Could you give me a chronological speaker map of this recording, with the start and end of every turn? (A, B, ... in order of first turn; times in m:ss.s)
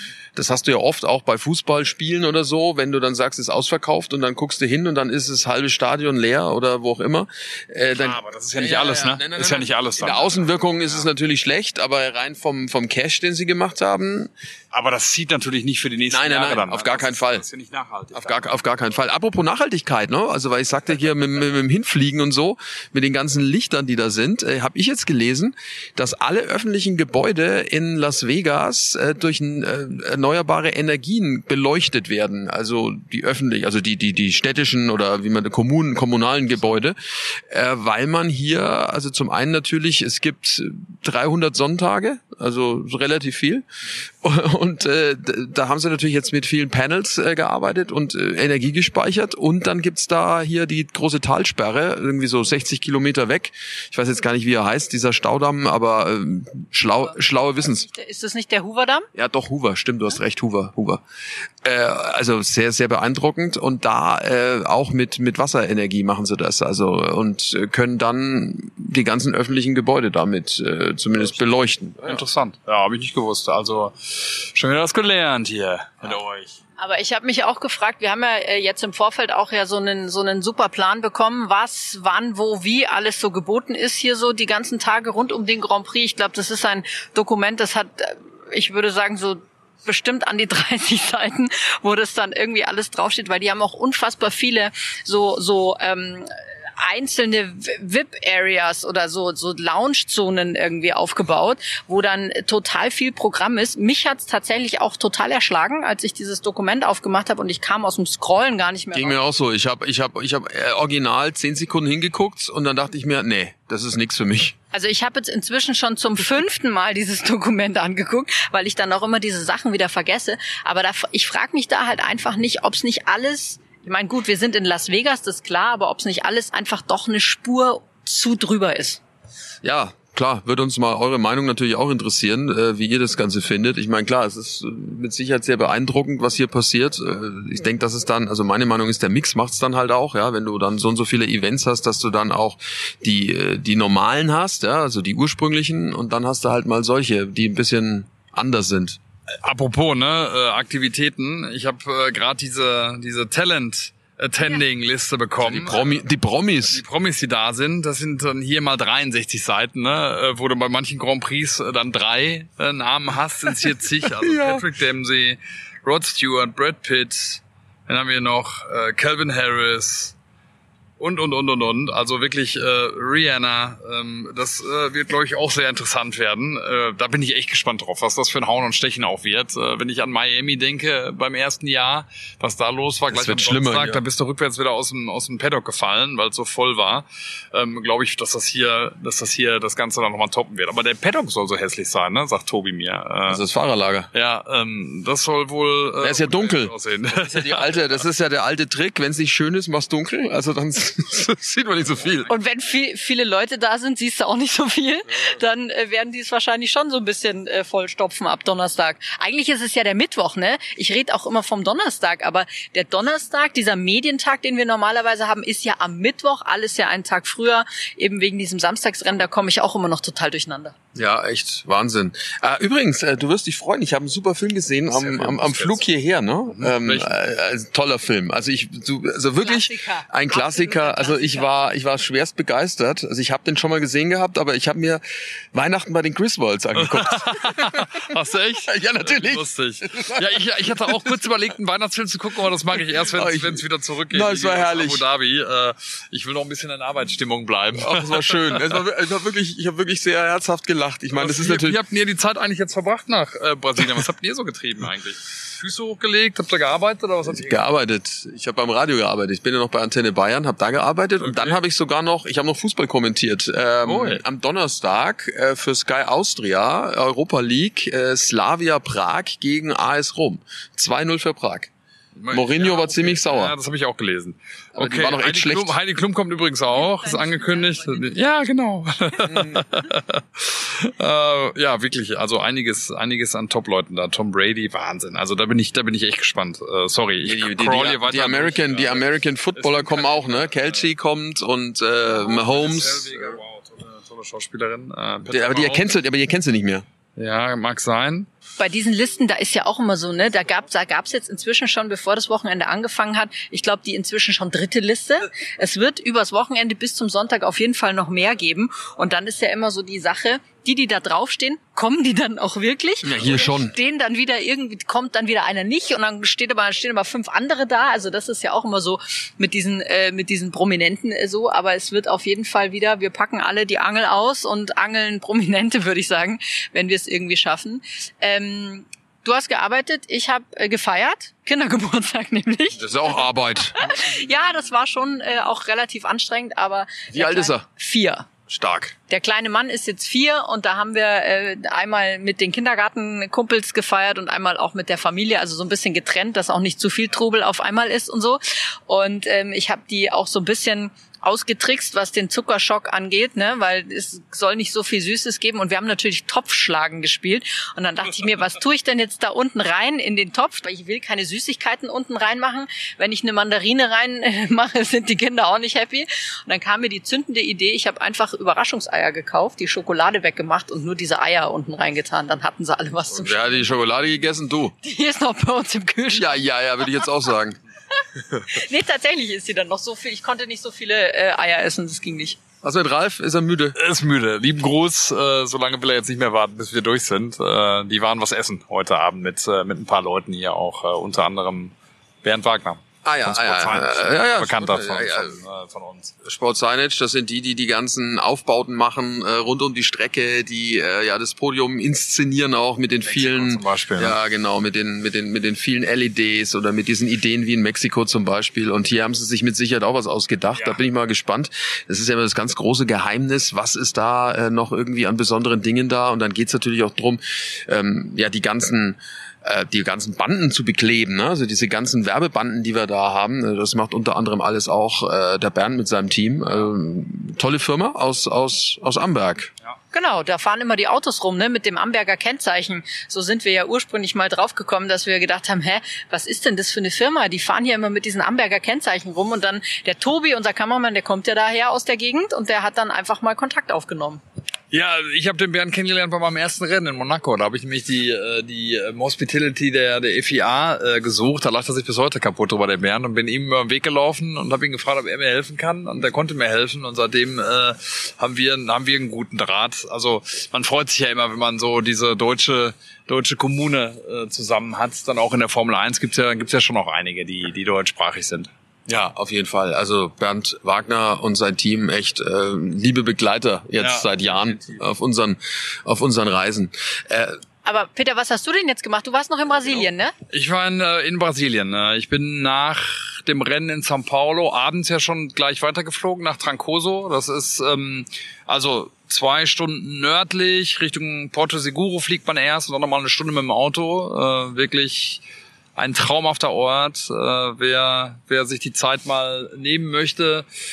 0:00.3-0:14.3 A
0:07.9-0:11.1 B
0:14.7-0:18.6 B
0:16.1-0:17.4 A
0:18.1-0:43.6 A
0:44.2-0:57.8 A
0:57.7-0:59.1 C
0:59.1-1:01.0 A
1:01.6-1:12.2 A
1:12.0-1:16.6 B
1:16.8-1:49.2 C
1:48.9-1:54.5 A
1:54.7-2:09.0 C
2:09.6-2:29.0 A
2:29.4-2:35.8 B
2:35.4-2:36.8 A
2:36.7-2:50.1 B
2:44.2-2:44.6 A
2:51.0-3:13.4 B
3:03.1-3:04.0 A
3:13.3-3:14.1 A
3:14.1-3:17.8 B
3:16.0-3:22.3 A
3:22.3-3:40.7 C
3:40.9-3:58.0 A
3:44.9-3:45.8 B
3:46.6-3:47.1 B
3:49.4-3:51.5 C
3:56.8-4:08.7 B
3:58.7-4:00.4 A
4:03.1-4:05.0 A
4:07.8-4:11.8 A
4:11.1-4:17.6 B
4:17.3-4:31.7 A
4:21.2-4:21.6 B
4:23.8-4:24.2 B
4:32.2-4:49.0 B
4:32.3-4:33.5 A
4:34.7-4:35.7 A
4:36.7-4:38.1 C
4:39.3-4:39.6 A
4:47.2-4:53.4 A
4:49.6-4:50.9 B
4:52.1-4:55.9 B
4:55.3-4:56.8 A
4:57.2-4:58.3 B
4:58.6-5:33.1 C
5:13.0-5:13.7 A
5:32.8-5:33.8 A
5:33.7-5:38.3 C
5:37.1-5:37.6 A
5:38.5-5:38.9 A
5:39.1-6:13.7 C
6:13.1-6:14.7 A
6:14.8-6:16.4 C
6:16.1-6:17.6 A
6:18.2-6:18.5 A
6:18.5-6:22.4 C
6:22.6-6:23.8 A
6:23.8-6:36.1 B
6:33.0-6:35.4 A
6:36.2-7:09.5 A
6:43.0-6:44.2 B
7:09.9-7:24.2 C
7:24.7-7:48.5 B
7:48.9-7:57.4 A
7:53.8-7:54.8 B
7:57.6-8:00.1 C
8:00.3-8:15.2 B
8:15.8-8:20.4 B